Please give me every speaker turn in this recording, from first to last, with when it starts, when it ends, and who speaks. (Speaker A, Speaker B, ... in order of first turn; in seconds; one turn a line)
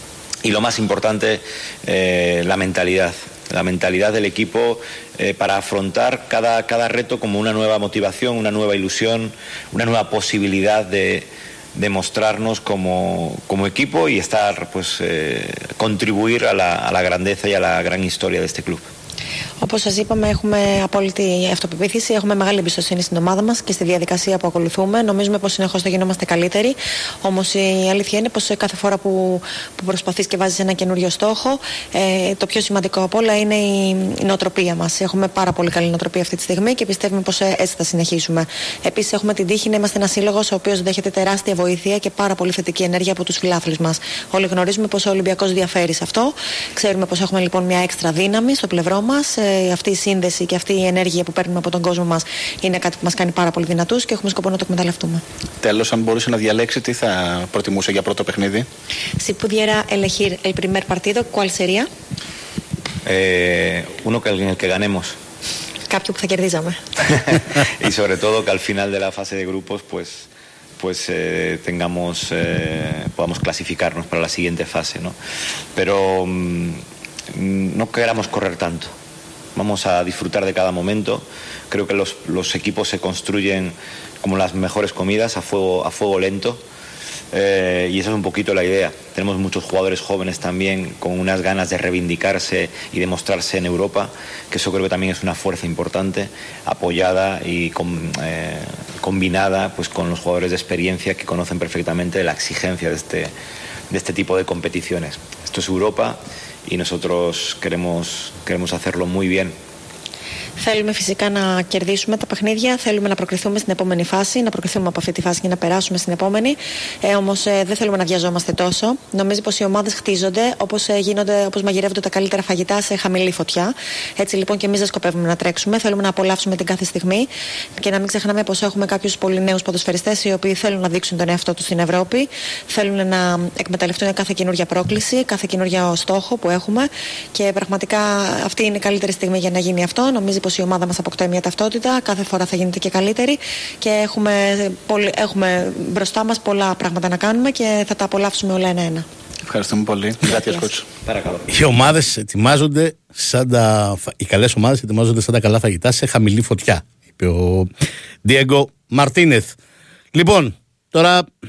Speaker A: 0.4-18.9
Speaker B: 19.6-55.2
Speaker C: 55.6-58.7
Speaker B: 59.2-61.9
Speaker A: 63.0-65.2
Speaker B: 65.9-66.8
Speaker A: 67.4-70.3
Speaker A: 70.8-75.2
Speaker A: 75.8-76.8
Speaker A: 77.3-78.9
Speaker A: 79.5-86.6
Speaker A: 87.3-103.3
Speaker A: 103.9-109.6
Speaker B: 110.6-127.3
Speaker B: 127.8-149.1
Speaker C: 149.5-150.9
Speaker B: 150.3-150.7
Speaker A: 151.1-151.5
Speaker D: 151.5-157.7
Speaker D: 158.2-159.6
Speaker D: 160.1-161.3